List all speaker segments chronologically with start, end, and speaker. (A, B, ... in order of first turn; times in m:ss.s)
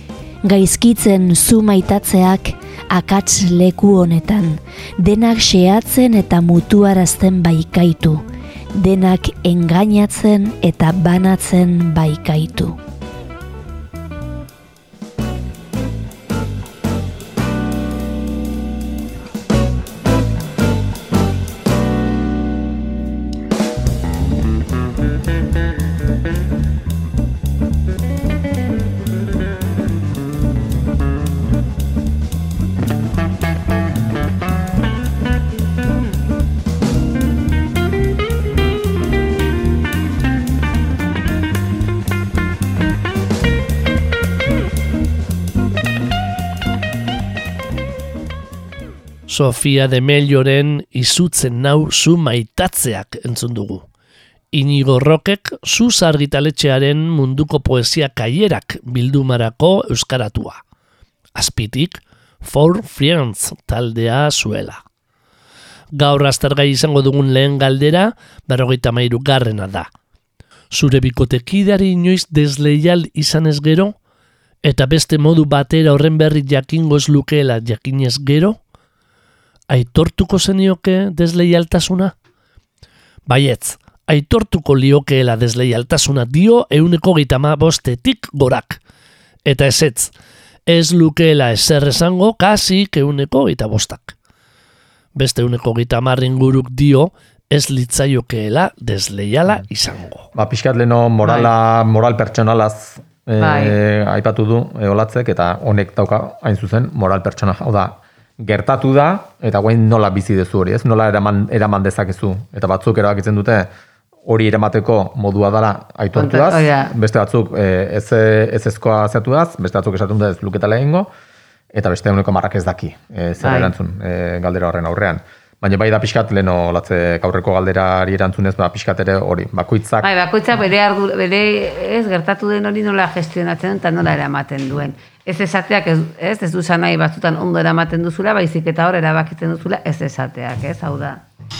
0:00.4-0:12.8 A
0:49.3-0:53.8 B
0:54.5-1:00.6 B
1:01.3-1:04.8 B
1:05.9-1:09.9 B
1:10.7-1:13.9 B
1:14.6-1:18.6 B
1:19.7-1:22.1 B
1:23.2-1:28.8 B
1:29.4-1:30.1 B
1:30.6-1:34.1 B
1:35.1-1:40.2 B
1:40.3-1:53.7 C
1:41.2-1:41.5 D
1:43.4-1:43.8 D
1:54.2-2:01.1 C
1:56.1-1:56.9 D
2:01.7-2:10.1 C
2:03.4-2:03.7 D
2:10.0-2:21.2 D